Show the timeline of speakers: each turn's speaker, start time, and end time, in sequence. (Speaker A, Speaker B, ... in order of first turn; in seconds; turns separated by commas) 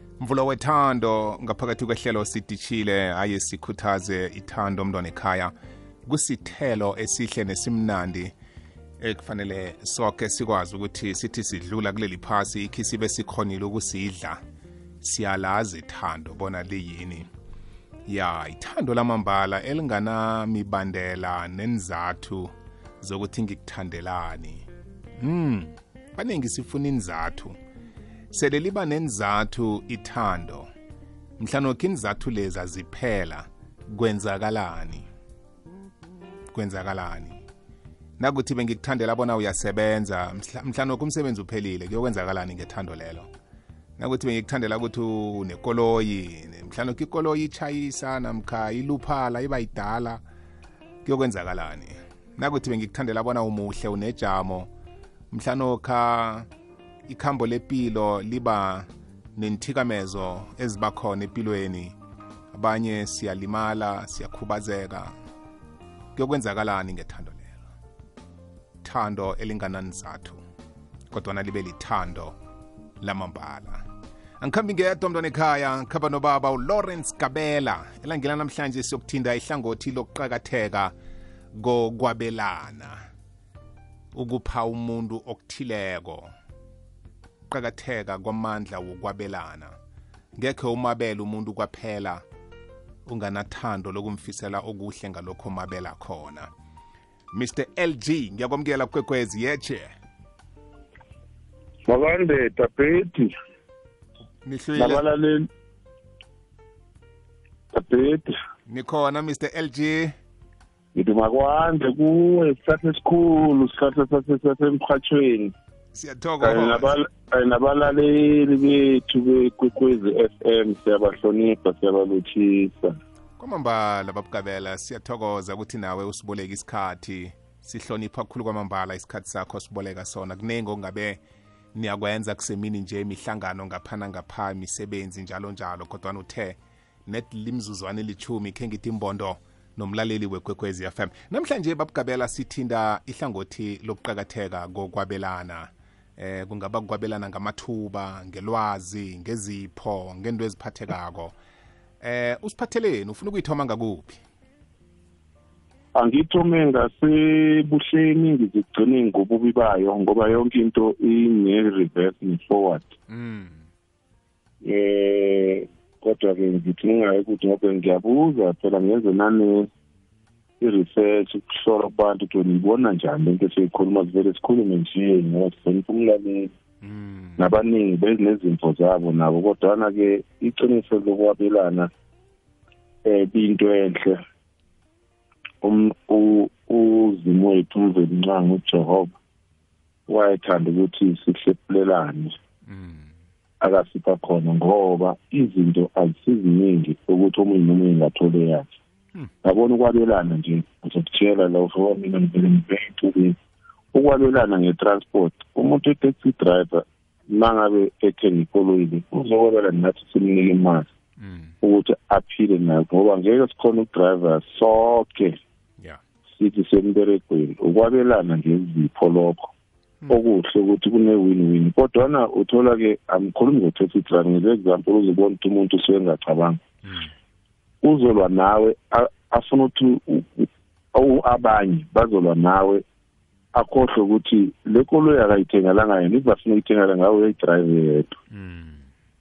Speaker A: 0.2-5.5, Speaker A: 6.1-8.3, Speaker A: 9.0-14.4, Speaker A: 15.0-17.3, Speaker A: 18.1-24.6, Speaker A: 25.2-27.6, Speaker A: 28.3-30.7, Speaker A: 31.4-35.1, Speaker A: 36.5-37.4, Speaker A: 38.2-43.3, Speaker A: 44.0-50.2, Speaker A: 51.0-54.7, Speaker A: 55.3-56.5, Speaker A: 57.1-62.0, Speaker A: 62.5-65.1, Speaker A: 66.1-67.6, Speaker A: 68.8-70.4, Speaker A: 71.1-72.3, Speaker A: 73.0-73.8, Speaker A: 74.4-80.9, Speaker A: 81.5-83.0, Speaker A: 84.1-86.3, Speaker A: 87.5-89.7, Speaker A: 90.3-92.2, Speaker A: 93.0-96.5, Speaker A: 97.3-99.9, Speaker B: 101.9-103.3, Speaker A: 104.4-105.0, Speaker B: 104.8-105.5, Speaker B: 107.7-108.3, Speaker A: 108.7-110.2, Speaker B: 110.9-115.5, Speaker A: 115.9-116.9, Speaker B: 116.4-123.0, Speaker A: 123.4-131.2, Speaker A: 131.7-151.3, Speaker A: 152.0-154.2, Speaker B: 155.9-162.9, Speaker A: 163.1-163.6, Speaker B: 164.6-169.7, Speaker B: 170.6-176.5, Speaker A: 176.8-177.5, Speaker B: 177.4-181.9, Speaker B: 183.0-184.2, Speaker B: 185.6-189.1, Speaker B: 190.1-192.3, Speaker A: 192.7-193.1, Speaker B: 193.6-198.7, Speaker B: 199.4-203.3, Speaker B: 203.9-210.9, Speaker A: 211.2-211.5, Speaker B: 211.6-215.4, Speaker B: 216.3-219.5, Speaker B: 220.1-226.6, Speaker A: 226.8-227.1, Speaker B: 227.8-232.8, Speaker B: 233.5-238.1, Speaker A: 238.3-238.8